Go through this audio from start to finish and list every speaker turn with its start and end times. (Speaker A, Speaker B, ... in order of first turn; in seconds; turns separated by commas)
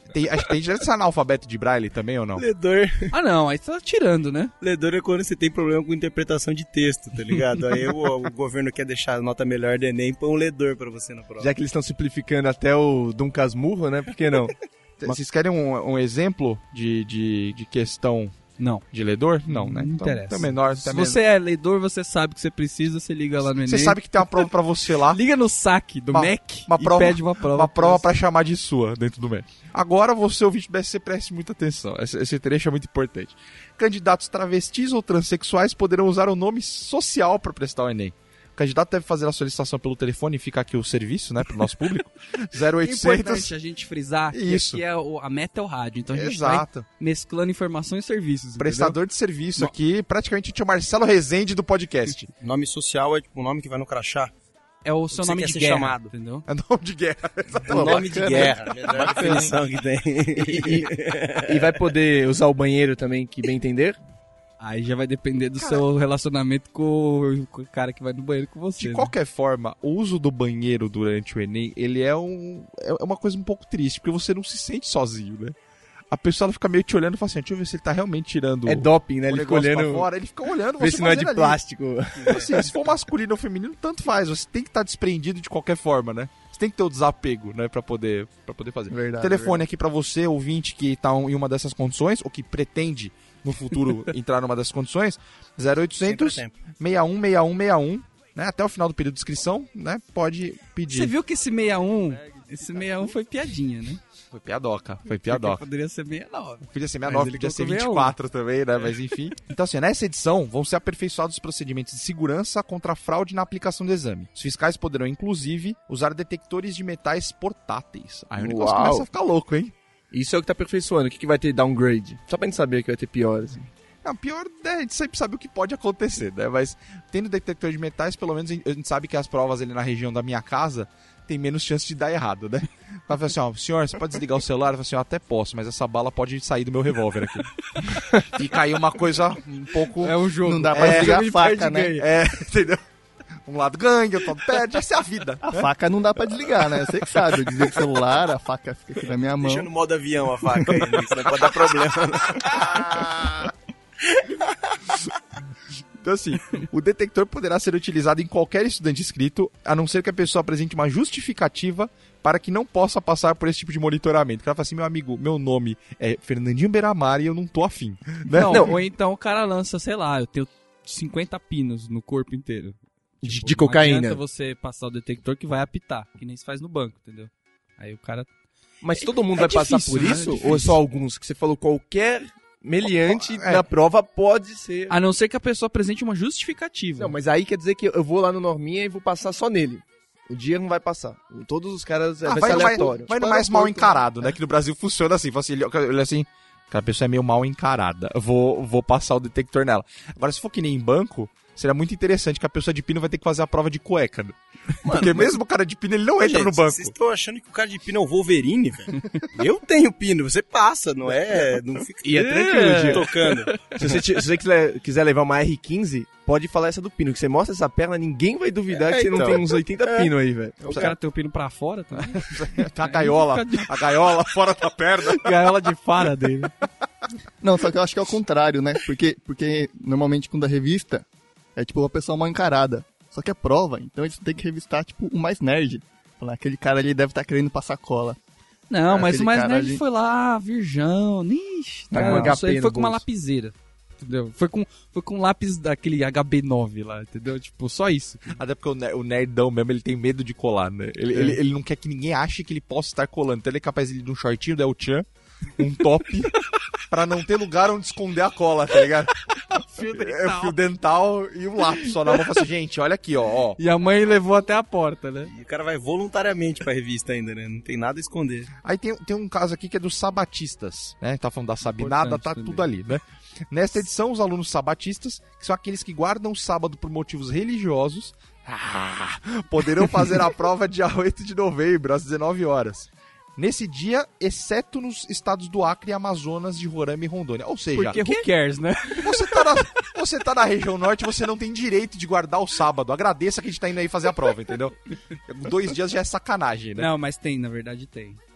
Speaker A: 0.1-2.4, Speaker B: 2.4-3.1, Speaker C: 3.1-4.5, Speaker B: 4.6-11.5, Speaker D: 11.4-14.5, Speaker A: 15.0-18.3, Speaker C: 18.6-18.8, Speaker A: 18.9-21.2, Speaker C: 19.5-24.5, Speaker A: 23.6-25.2, Speaker C: 25.1-28.1, Speaker A: 26.1-43.5, Speaker C: 42.8-49.0, Speaker A: 44.3-44.8, Speaker A: 46.1-46.9, Speaker A: 48.6-52.3, Speaker B: 52.4-54.3, Speaker C: 54.8-56.4, Speaker B: 55.1-56.1, Speaker A: 56.5-59.2, Speaker E: 57.7-59.5, Speaker B: 57.7-61.5, Speaker D: 59.0-59.5, Speaker D: 60.3-64.0, Speaker C: 64.6-69.1, Speaker A: 65.6-65.8, Speaker A: 68.8-75.5, Speaker A: 76.1-81.6, Speaker D: 78.7-80.1, Speaker D: 80.8-82.5, Speaker A: 82.2-101.1, Speaker E: 88.9-89.6, Speaker B: 96.0-96.5, Speaker C: 100.9-104.0, Speaker A: 104.3-105.6, Speaker C: 105.3-108.1, Speaker A: 106.6-119.7, Speaker D: 118.4-119.0, Speaker D: 120.1-123.7, Speaker A: 124.0-137.5, Speaker A: 138.3-140.2, Speaker C: 140.0-142.1, Speaker E: 140.4-141.9, Speaker A: 140.7-141.2, Speaker A: 141.9-142.8, Speaker A: 143.4-145.7, Speaker E: 145.4-149.7, Speaker A: 147.1-147.6, Speaker B: 149.4-152.7, Speaker A: 152.5-153.5, Speaker A: 156.0-168.7, Speaker C: 168.3-178.3, Speaker D: 168.4-168.7, Speaker D: 173.2-174.2, Speaker D: 178.8-184.9, Speaker C: 179.0-180.8, Speaker A: 182.9-183.7, Speaker C: 184.9-187.1, Speaker D: 187.0-193.1, Speaker A: 192.2-206.9, Speaker E: 192.3-194.0, Speaker B: 204.8-205.3, Speaker B: 206.2-212.3, Speaker D: 212.0-213.1, Speaker C: 212.1-213.8, Speaker B: 212.9-213.7, Speaker D: 213.7-220.9, Speaker B: 218.7-220.1, Speaker A: 220.7-220.9, Speaker C: 220.7-223.7, Speaker A: 222.1-225.5, Speaker C: 225.1-226.5, Speaker E: 227.4-231.0, Speaker E: 231.6-238.2, Speaker C: 238.7-248.4, Speaker E: 238.9-239.8, Speaker E: 241.9-242.3, Speaker D: 241.9-243.0, Speaker A: 248.3-256.4, Speaker A: 256.9-259.1, Speaker C: 259.5-260.6, Speaker A: 259.9-263.6, Speaker C: 261.8-262.1, Speaker C: 263.6-265.3, Speaker B: 265.3-268.5, Speaker A: 268.6-288.2, Speaker C: 271.6-272.6, Speaker C: 287.7-289.4, Speaker A: 289.0-296.9, Speaker C: 296.8-298.2